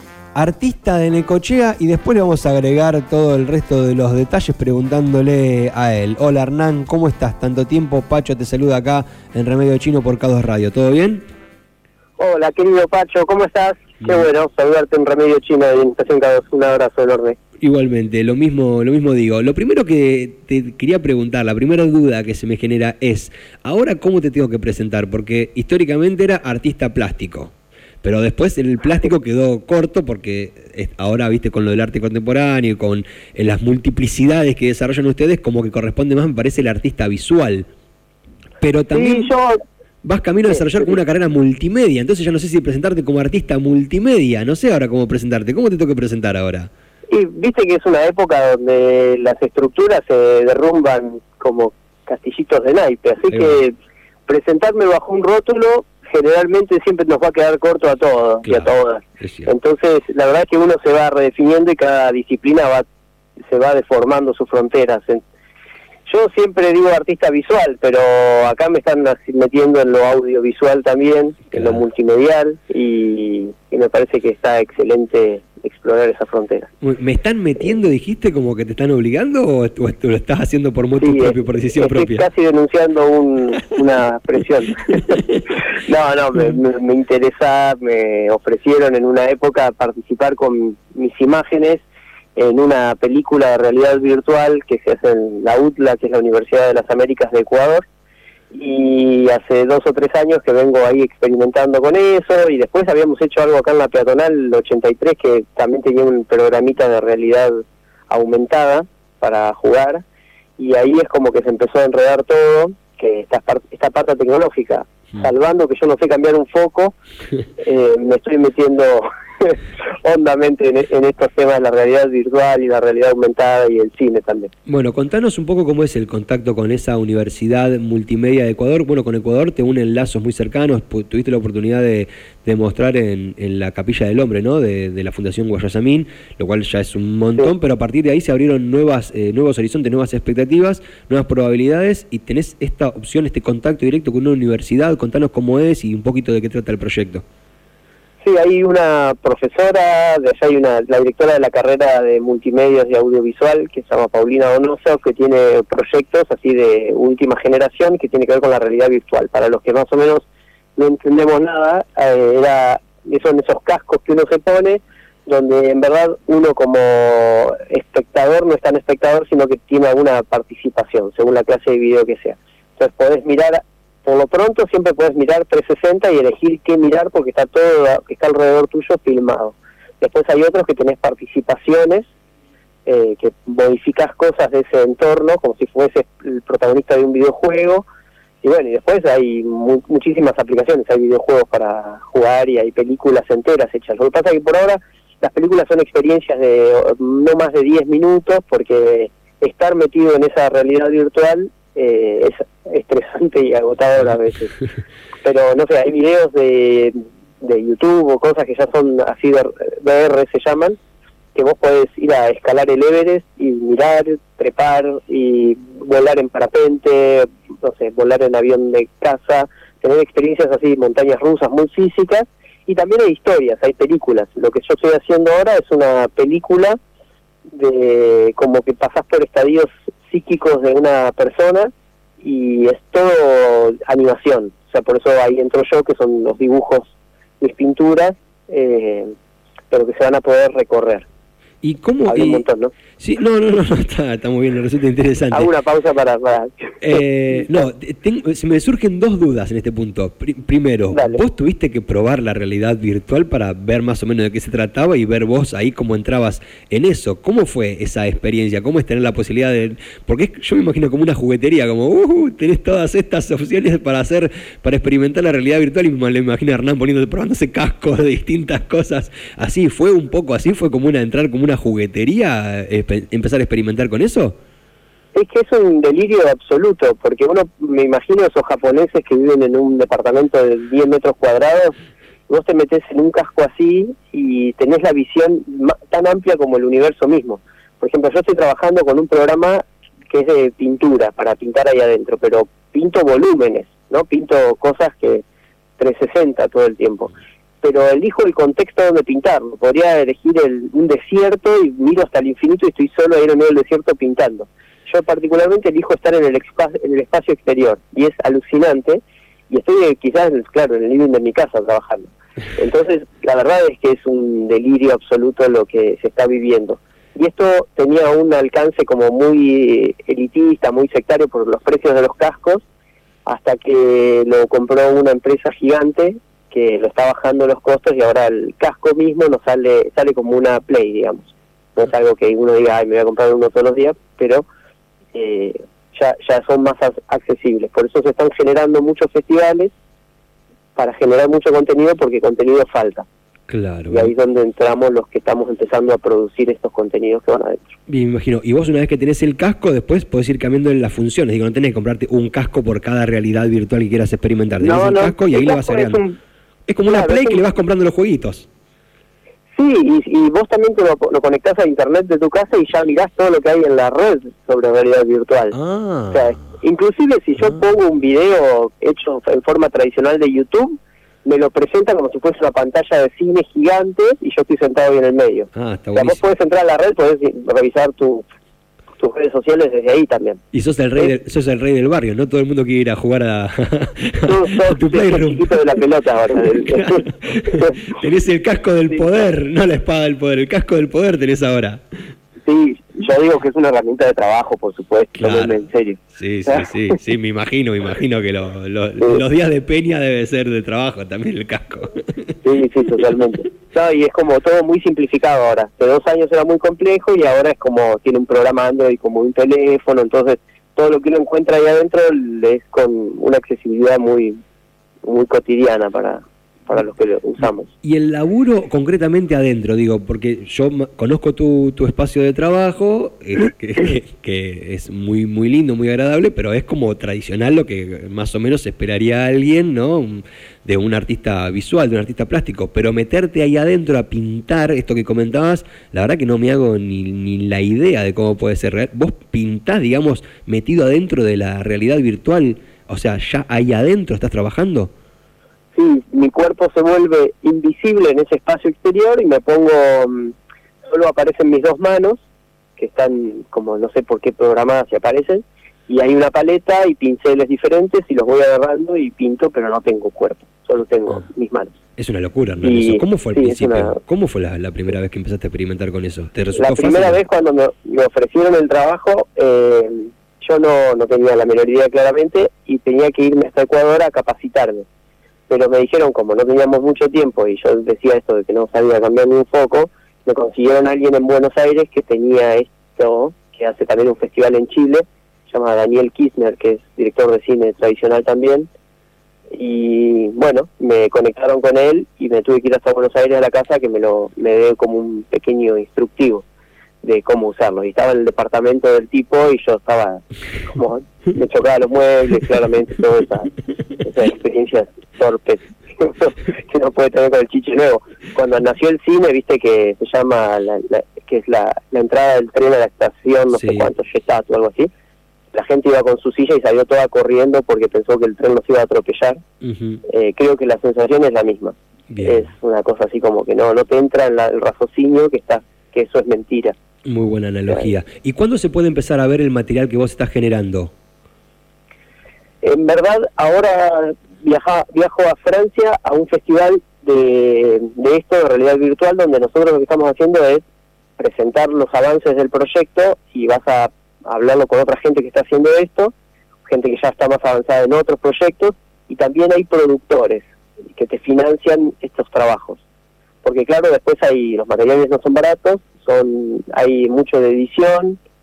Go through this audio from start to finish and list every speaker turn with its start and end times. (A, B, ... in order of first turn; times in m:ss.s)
0:00.4-0:11.2 A
0:12.2-0:17.4 B
0:14.0-0:14.3 A
0:17.6-0:27.5 A
0:28.0-0:37.7 A
0:38.6-0:39.3 A
0:38.9-0:39.6 B
0:40.0-0:46.7 A
0:40.5-0:40.9 B
0:47.1-0:53.7 B
0:53.3-0:53.6 A
0:54.3-1:02.8 B
0:58.4-0:59.5 A
1:03.5-1:05.2 B
1:06.1-1:16.7 B
1:11.5-1:11.8 A
1:16.8-1:22.2 A
1:21.0-1:31.8 B
1:32.4-1:37.8 B
1:38.5-1:47.6 B
1:48.1-1:50.0 B
1:50.6-1:57.0 B
1:57.6-2:04.5 B
2:04.7-2:27.2 A
2:28.2-2:40.2 B
2:40.8-3:02.1 B
3:02.9-3:07.8 B
3:08.4-3:24.6 B
3:25.2-3:30.8 B
3:31.3-3:46.8 B
3:47.5-3:59.1 B
3:59.7-4:01.0 B
4:01.6-4:02.4 A
4:02.1-4:02.7 B
4:03.0-4:05.5 A
4:05.3-4:07.6 B
4:06.8-4:34.3 A
4:10.9-4:11.2 B
4:35.1-4:41.7 B
4:42.3-4:55.2 B
4:55.8-5:22.6 B
5:23.3-5:34.4 B
5:35.1-5:39.7 B
5:40.8-5:43.1 B
5:43.5-5:44.1 A
5:43.9-5:47.7 B
5:47.9-5:56.0 A
5:54.6-5:56.2 B
5:56.7-5:58.5 A
5:56.9-5:57.4 B
5:59.6-6:05.6 B
6:05.5-6:06.5 A
6:06.1-6:18.3 B
6:15.5-6:16.2 A
6:19.0-6:20.4 B
6:20.5-6:25.6 A
6:24.2-6:27.8 B
6:26.5-6:31.8 A
6:32.4-6:37.0 B
6:35.2-6:35.6 A
6:36.1-6:42.3 A
6:42.4-6:54.4 B
6:55.0-6:57.7 B
6:57.8-7:24.9 A
7:25.8-7:32.2 B
7:32.8-7:41.8 B
7:42.0-7:47.2 A
7:42.6-7:44.0 B
7:46.6-7:54.8 B
7:55.5-8:08.7 B
8:09.5-8:16.4 B
8:17.0-8:23.5 B
8:24.0-8:34.9 B
8:33.5-8:33.9 A
8:35.5-8:39.4 B
8:39.6-8:40.0 A
8:40.1-8:46.8 B
8:42.1-8:42.5 A
8:47.0-8:50.9 A
8:52.6-9:00.6 B
9:01.2-9:06.1 B
9:06.6-9:12.8 B
9:13.4-9:18.2 B